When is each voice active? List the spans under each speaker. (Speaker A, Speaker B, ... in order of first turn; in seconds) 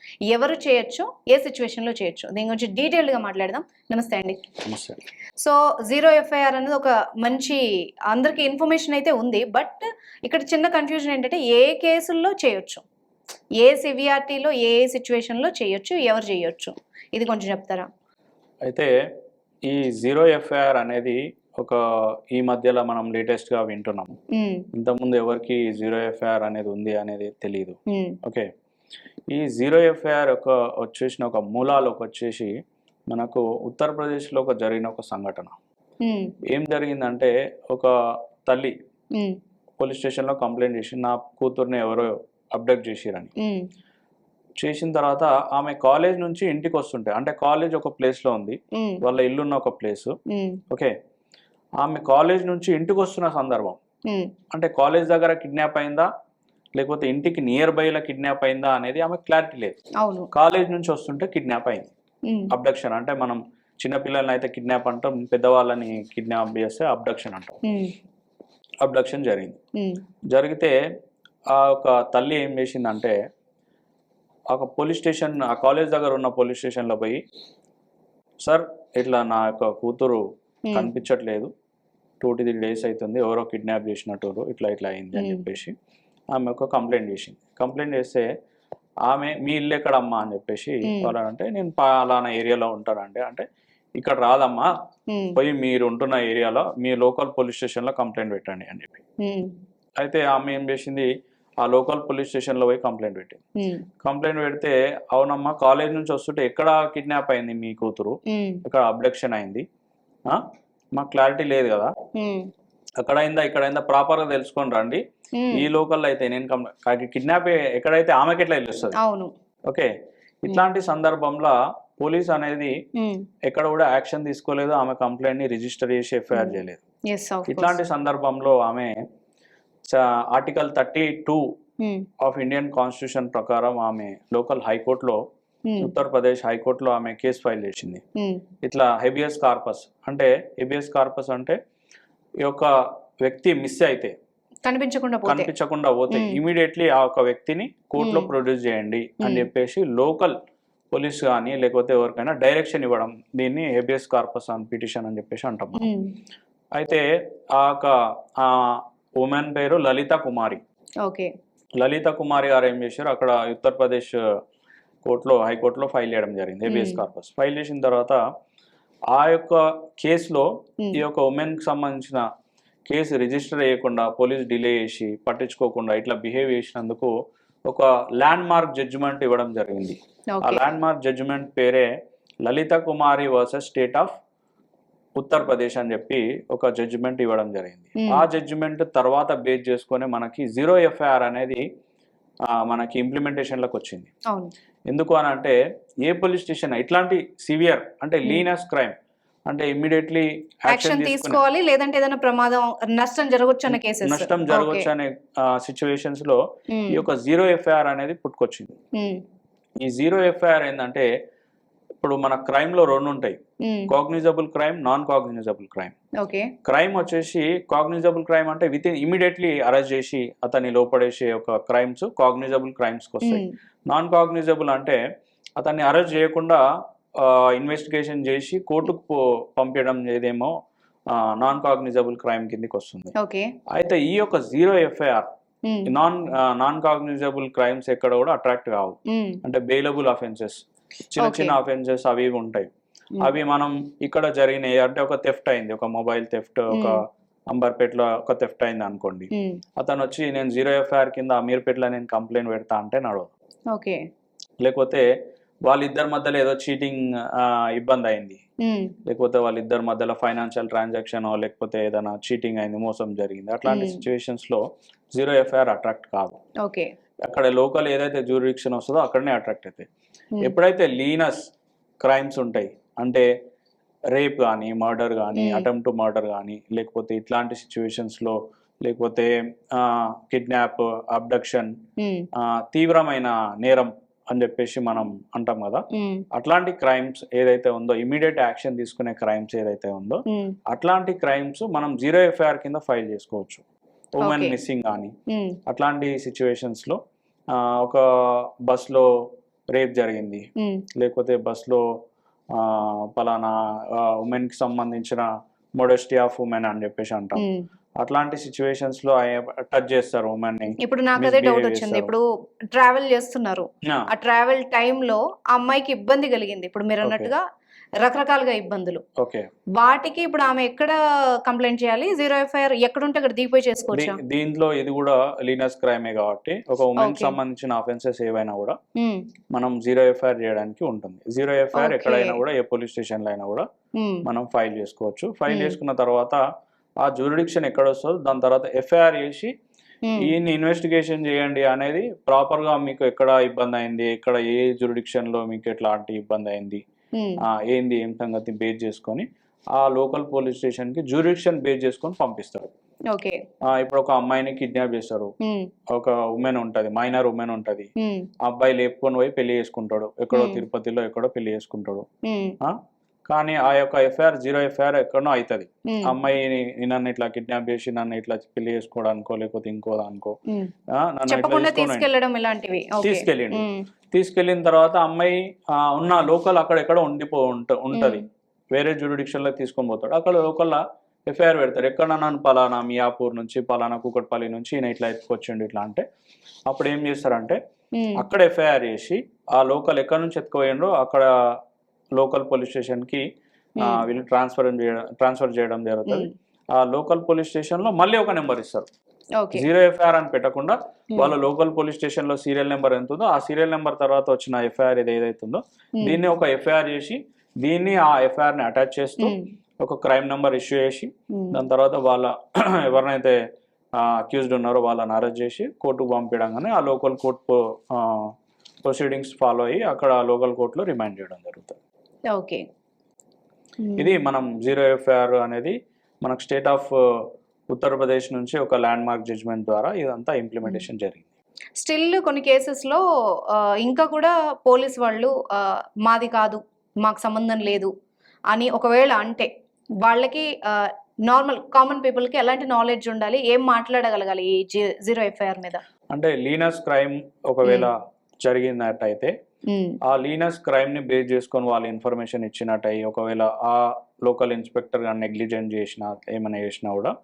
Speaker A: 0.3-4.5, 5.4-12.8, 13.6-17.9, 24.3-24.7, 27.9-28.2, 36.0-36.4, 39.1-39.4, 43.4-43.7, 48.8-49.0, 50.3-50.6, 54.1-54.4, 60.0-60.3, 67.7-68.0, 69.8-70.0, 85.1-85.5, 90.8-91.2, 95.1-95.4, 99.2-99.6, 103.6-103.9, 108.3-108.6, 112.2-112.5, 115.3-115.7, 118.9-119.3, 123.0-123.3, 126.3-127.8, 131.8-132.1, 135.7-135.9, 138.2-138.5, 144.7-145.6, 146.1-146.4, 148.0-148.3, 149.2-149.5, 155.8-156.2, 161.0-161.3, 166.6-167.1, 180.3-180.7, 187.9-188.4, 200.7-204.9, 206.7-207.0, 208.9-209.2, 213.6-214.0, 216.2-216.6, 223.2-223.6, 233.2-233.5, 235.7-235.9, 239.1-239.4, 241.2-241.7, 246.7-247.0, 249.3-249.6, 253.7-254.0, 258.6-259.0, 263.6-264.1, 266.6-266.9, 275.4-275.7, 282.0-282.3, 285.9-286.3, 290.3-290.6, 294.2-294.6, 295.3-295.6, 300.6-300.8, 307.4-307.7, 310.8-317.5, 318.0-319.1, 319.8-324.2, 326.9-327.4, 329.0-329.3, 331.7-332.5, 334.0-334.2, 335.5-335.8, 340.1-340.3, 353.1-353.4, 355.4-355.7, 358.0-358.3, 360.3-360.7, 362.3-362.6, 365.9-366.1, 371.3-373.9, 377.9-378.2, 388.0-388.2, 396.1-396.3, 399.4-399.7, 409.2-409.5, 411.3-411.6, 422.3-422.7, 423.8-424.3, 431.8-437.9, 438.5-439.5, 440.0-445.8, 447.6-447.9, 449.7-450.0
Speaker B: 4.6-5.0, 18.6-18.9, 19.6-24.2, 24.7-28.5, 29.3-32.5, 33.1-35.6, 36.5-37.9, 38.5-38.8, 39.8-43.3, 44.6-50.2, 50.7-51.0, 51.8-53.8, 54.5-56.1, 56.8-59.8, 60.4-61.9, 62.5-67.5, 68.8-69.6, 70.3-70.8, 71.5-73.2, 74.5-77.2, 78.5-81.5, 82.2-85.8, 86.3-88.3, 89.1-93.5, 94.0-94.7, 95.4-99.0, 100.0-101.1, 101.6-103.4, 104.0-109.7, 111.0-111.9, 113.0-119.0, 120.5-122.7, 123.5-126.8, 127.5-128.9, 129.9-131.5, 132.2-135.2, 135.8-138.0, 138.7-141.6, 142.4-142.7, 143.2-144.1, 145.2-150.3, 150.9-155.9, 156.8-157.0, 157.6-160.6, 161.8-164.2, 165.1-168.2, 169.1-172.2, 172.9-177.1, 177.7-181.9, 182.5-184.2, 185.2-191.6, 192.5-194.1, 194.9-199.0, 199.5-201.4, 203.7-206.4, 206.9-208.8, 209.8-211.1, 212.0-215.9, 216.6-225.0, 225.6-226.6, 227.2-230.6, 231.1-233.1, 233.7-235.3, 235.9-242.7, 243.2-247.0, 247.5-249.3, 249.8-253.3, 254.6-255.1, 255.7-258.4, 259.1-264.6, 265.2-266.4, 267.2-269.9, 270.4-271.5, 272.0-273.3, 274.1-281.8, 282.4-293.6, 294.2-295.1, 295.7-297.0, 297.5-299.1, 299.7-301.8, 302.5-305.3, 305.8-307.4, 308.0-312.1, 317.0-317.3, 319.2-319.5, 323.9-328.8, 329.5-333.7, 334.2-336.4, 337.0-339.5, 340.2-346.8, 347.4-352.7, 353.7-355.3, 355.9-357.9, 358.5-362.1, 362.6-370.4, 370.9-372.1, 373.0-378.2, 378.8-386.1, 386.7-387.6, 388.2-391.6, 392.2-393.2, 393.8-398.9, 399.5-413.4, 414.0-418.3, 418.9-421.8, 424.0-431.3, 446.1-447.9, 448.4-449.3, 450.1-457.1